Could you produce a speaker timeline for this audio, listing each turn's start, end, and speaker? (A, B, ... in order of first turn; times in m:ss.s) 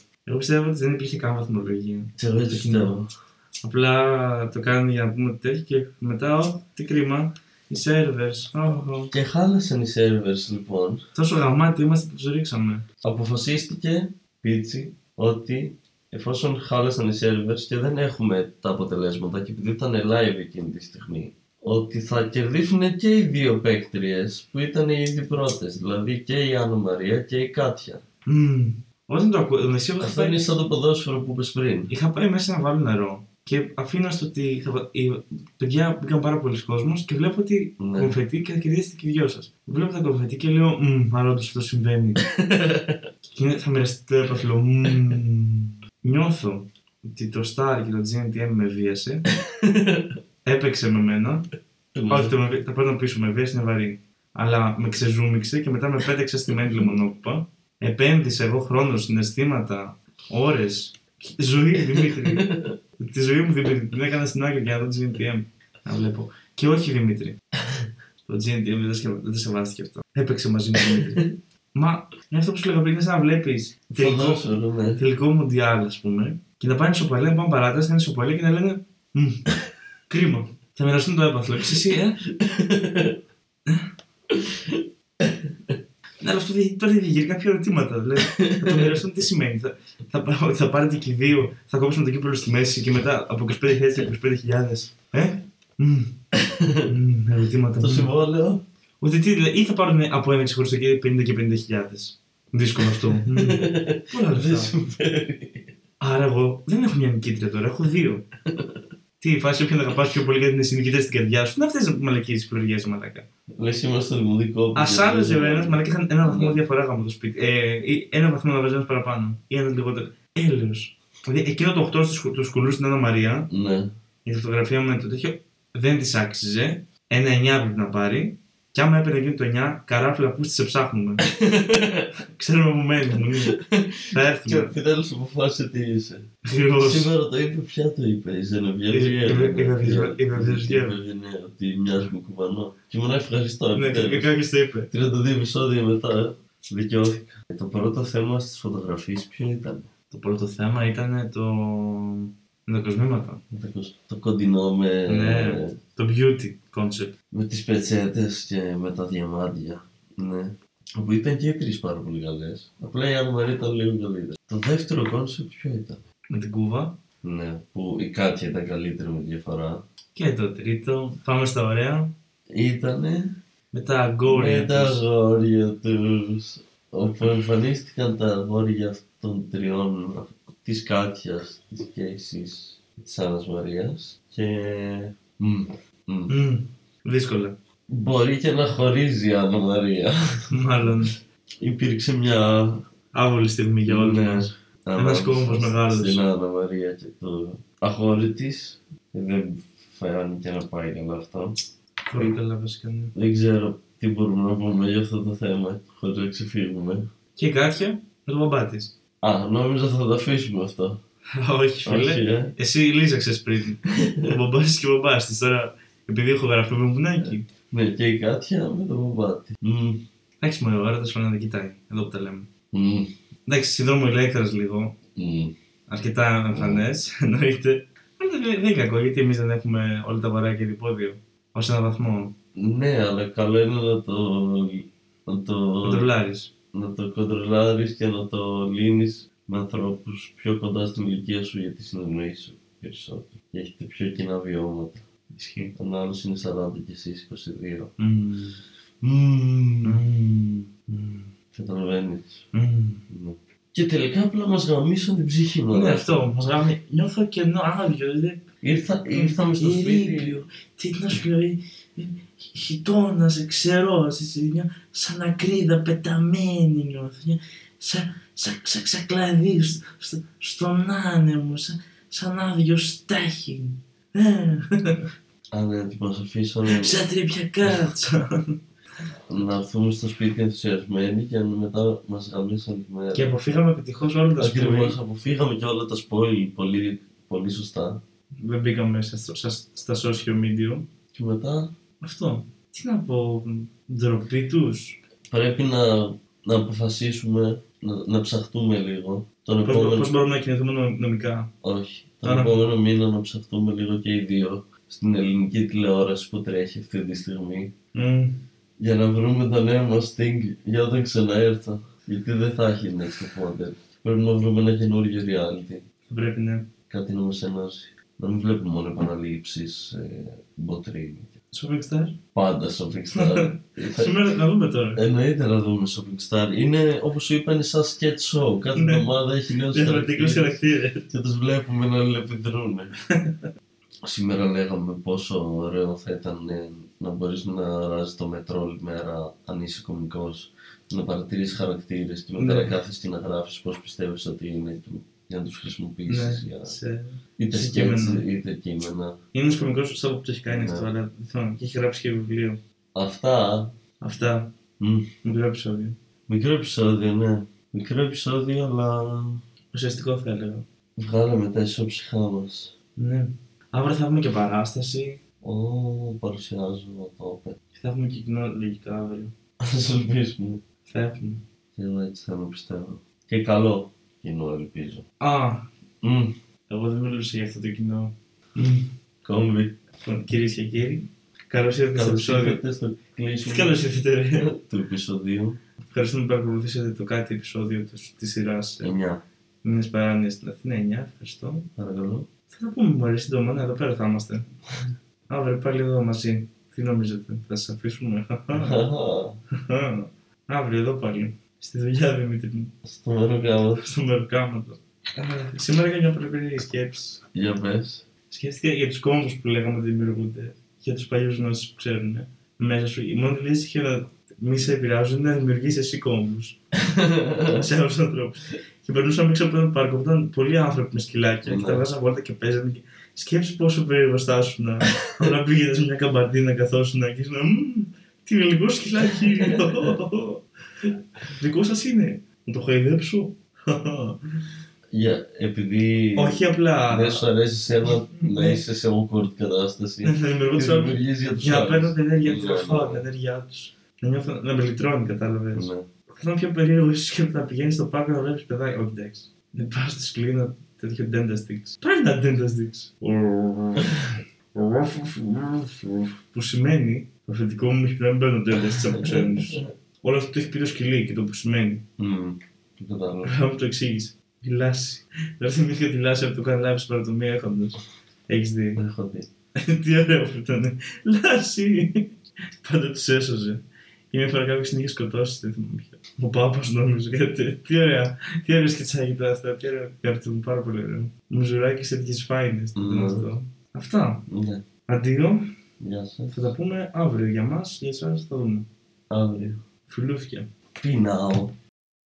0:00.2-0:03.0 A
0:02.2-0:03.1 B
0:03.6-0:09.1 A
0:09.1-0:11.0 B
0:11.1-0:12.8 A
0:13.0-0:28.0 B
0:28.3-0:30.4 A
0:30.0-0:31.9 B
0:31.9-0:42.2 A
0:37.8-0:38.2 B
0:42.2-0:43.0 B
0:43.2-0:49.3 A
0:49.6-0:50.1 B
0:50.4-0:51.4 A
0:51.9-0:52.3 B
0:52.1-1:07.4 A
1:02.1-1:02.7 B
1:08.2-1:11.2 A
1:10.8-1:11.3 B
1:11.7-1:19.5 A
1:14.0-1:15.0 B
1:20.1-1:22.2 A
1:22.3-1:23.2 B
1:24.3-1:25.8 B
1:26.2-1:36.1 A
1:28.2-1:29.0 B
1:36.4-1:36.9 B
1:36.9-1:38.1 A
1:37.8-1:38.6 B
1:39.0-1:44.8 A
1:42.8-1:45.7 B
1:46.0-1:48.2 A
1:48.5-1:48.8 B
1:49.2-1:53.2 A
1:53.6-1:56.6 B
1:54.7-2:03.5 A
2:03.5-2:03.9 B
2:04.2-2:11.2 A
2:11.3-2:12.1 B
2:12.4-2:13.6 A
2:13.6-2:16.3 B
2:14.1-2:14.7 A
2:16.4-2:17.1 A
2:16.8-2:24.3 B
2:18.9-2:21.0 A
2:23.7-2:24.9 A
2:24.9-2:29.9 B
2:30.1-2:33.4 A
2:33.5-2:35.8 B
2:35.0-2:37.1 A
2:37.3-2:46.0 B
2:46.3-2:47.0 A
2:47.2-2:49.8 B
2:50.1-2:52.1 A
2:52.5-2:53.3 B
2:53.7-2:55.0 A
2:54.3-3:06.3 B
3:06.3-3:07.5 A
3:07.9-3:10.9 B
3:10.5-3:11.1 A
3:11.6-3:12.8 B
3:13.1-3:16.3 A
3:13.8-3:21.6 B
3:22.1-3:23.1 A
3:23.1-3:27.0 B
3:27.4-3:28.9 A
3:29.2-3:31.0 B
3:31.4-3:37.4 A
3:31.8-3:32.5 B
3:37.2-3:40.0 B
3:40.4-3:42.5 A
3:42.7-3:43.1 B
3:43.5-3:44.9 A
3:45.2-3:45.5 B
3:45.9-3:52.3 A
3:46.5-3:46.8 B
3:52.6-3:56.1 B
3:55.8-3:56.5 A
3:56.7-4:05.0 B
4:05.3-4:05.7 A
4:05.8-4:07.9 B
4:08.0-4:08.6 A
4:09.0-4:10.0 B
4:09.8-4:11.3 A
4:11.5-4:12.5 B
4:12.5-4:13.0 A
4:13.1-4:16.3 B
4:15.7-4:18.4 A
4:18.6-4:20.4 B
4:19.1-4:35.0 A
4:35.5-4:37.0 B
4:36.7-4:38.6 A
4:39.3-4:43.3 B
4:43.1-4:45.0 A
4:44.4-4:48.0 B
4:48.4-4:50.9 A
4:51.1-4:51.7 B
4:52.0-4:55.0 A
4:55.3-5:00.2 B
4:59.6-5:01.5 A
5:01.6-5:07.7 B
5:02.2-5:02.7 A
5:07.9-5:08.4 A
5:08.8-5:15.8 B
5:16.1-5:16.7 A
5:16.9-5:21.3 B
5:21.5-5:22.2 A
5:22.3-5:24.1 B
5:23.1-5:25.0 A
5:25.0-5:32.9 B
5:28.8-5:29.0 A
5:29.7-5:31.0 A
5:34.0-5:46.8 B
5:42.4-5:42.8 A
5:46.1-5:48.2 A
5:47.4-5:49.2 B
5:49.3-5:52.6 A
5:50.5-5:50.9 B
5:52.9-5:53.7 B
5:54.0-5:54.5 A
5:54.8-5:55.1 B
5:55.2-5:56.0 A
5:56.3-5:59.4 B
5:59.7-6:00.6 A
6:01.0-6:02.7 B
6:03.0-6:05.2 A
6:05.4-6:07.6 B
6:07.7-6:09.3 A
6:09.6-6:10.6 B
6:10.8-6:11.4 A
6:11.7-6:15.0 B
6:15.2-6:15.7 A
6:16.0-6:16.3 B
6:16.7-6:18.9 A
6:19.2-6:19.8 B
6:20.0-6:22.6 A
6:21.9-6:23.8 B
6:23.4-6:24.5 A
6:24.4-6:25.6 B
6:25.9-6:28.9 A
6:28.8-6:29.2 B
6:29.6-6:31.7 A
6:31.8-6:32.3 B
6:32.5-6:34.5 A
6:35.3-6:38.8 A
6:38.5-6:39.4 B
6:39.6-6:42.7 A
6:42.8-6:43.8 B
6:43.8-6:47.2 A
6:47.3-6:48.1 B
6:48.3-6:56.6 A
6:57.0-6:57.6 B
6:57.5-7:10.4 A
7:01.4-7:01.8 B
7:09.1-7:09.9 B
7:11.3-7:14.2 A
7:14.9-7:23.1 B
7:16.2-7:17.3 A
7:17.8-7:18.6 A
7:20.0-7:34.0 A
7:25.5-7:25.8 B
7:34.5-7:41.8 A
7:39.0-7:39.7 B
7:42.0-7:43.3 B
7:43.2-7:48.8 A
7:48.8-7:49.3 B
7:49.6-7:52.1 A
7:52.6-7:53.6 A
7:54.1-8:04.3 A
8:02.8-8:03.3 B
8:04.3-8:04.6 B
8:04.9-8:05.5 A
8:05.8-8:06.5 B
8:06.3-8:08.7 A
8:09.1-8:09.6 B
8:09.9-8:10.5 A
8:10.8-8:11.6 B